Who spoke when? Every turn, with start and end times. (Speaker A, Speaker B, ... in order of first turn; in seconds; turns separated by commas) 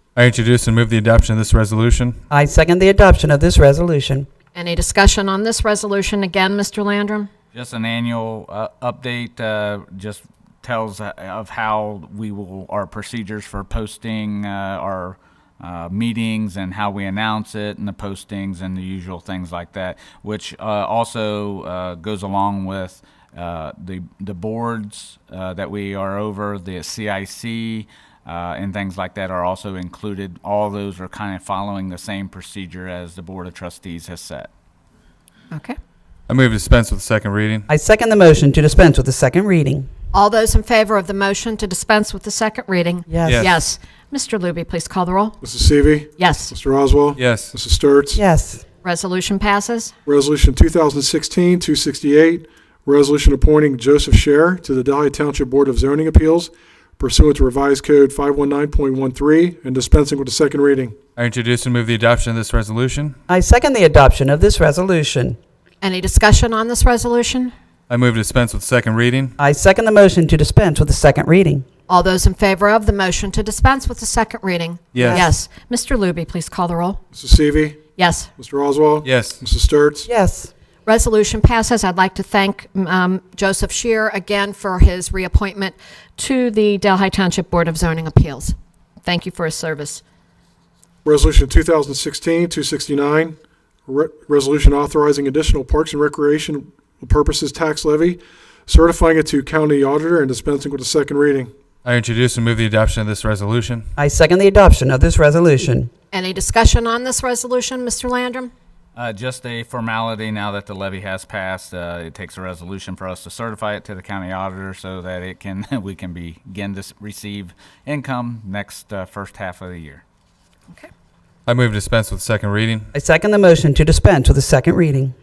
Speaker A: 0.1-2.2, Speaker B: 2.3-4.3, Speaker C: 4.5-7.3, Speaker D: 7.5-34.5, Speaker C: 35.5-35.8, Speaker A: 36.3-37.7, Speaker B: 37.7-39.9, Speaker C: 40.1-45.4, Speaker B: 43.1-43.5, Speaker A: 43.2-43.6, Speaker E: 45.4-48.2, Speaker C: 46.2-46.5, Speaker A: 47.2-47.5, Speaker B: 48.1-48.6, Speaker C: 48.8-49.9, Speaker E: 50.1-61.0, Speaker A: 61.2-63.2, Speaker B: 63.3-65.4, Speaker C: 65.8-67.5, Speaker A: 67.9-69.3, Speaker B: 69.4-71.7, Speaker C: 71.9-77.0, Speaker A: 74.9-75.2, Speaker B: 75.0-75.3, Speaker E: 77.1-77.8, Speaker C: 78.0-78.3, Speaker E: 78.4-80.1, Speaker A: 79.0-79.4, Speaker B: 80.1-80.5, Speaker C: 80.9-90.0, Speaker E: 91.0-101.5, Speaker A: 101.8-103.9, Speaker B: 104.0-105.9, Speaker C: 106.1-108.5, Speaker D: 109.0-120.0, Speaker A: 121.5-122.9, Speaker B: 122.9-125.1